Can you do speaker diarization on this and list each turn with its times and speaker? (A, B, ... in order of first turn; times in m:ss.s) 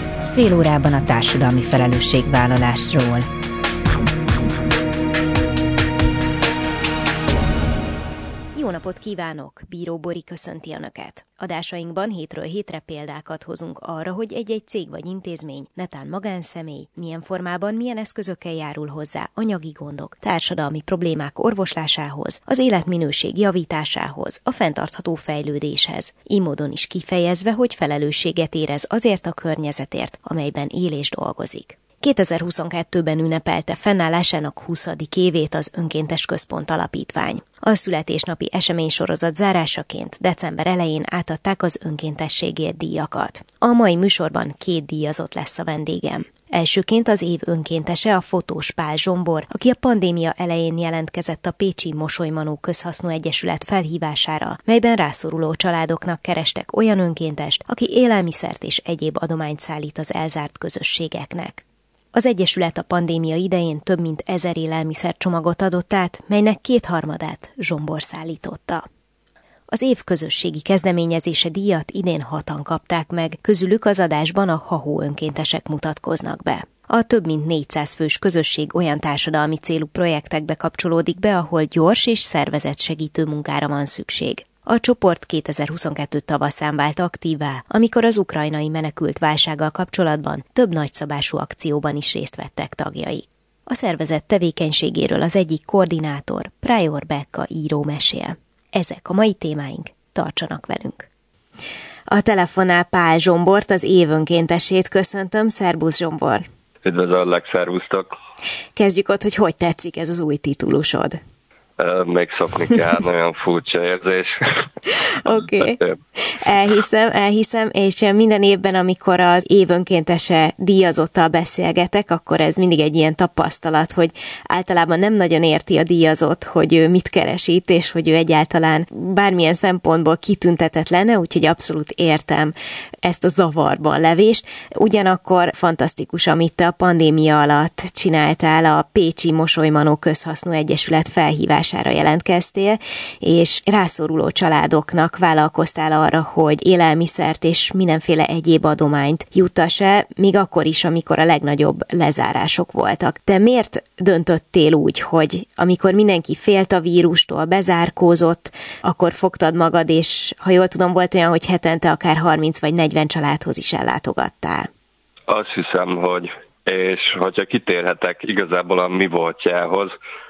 0:00.3-0:03.3 A
0:08.5-1:08.8 B
1:09.7-1:41.1 B
1:42.1-1:46.4 B
1:46.8-1:48.1 C
1:48.8-1:51.2 B
1:51.8-1:54.7 C
1:54.9-2:44.7 B
1:55.6-1:56.0 C
2:45.3-2:49.9 C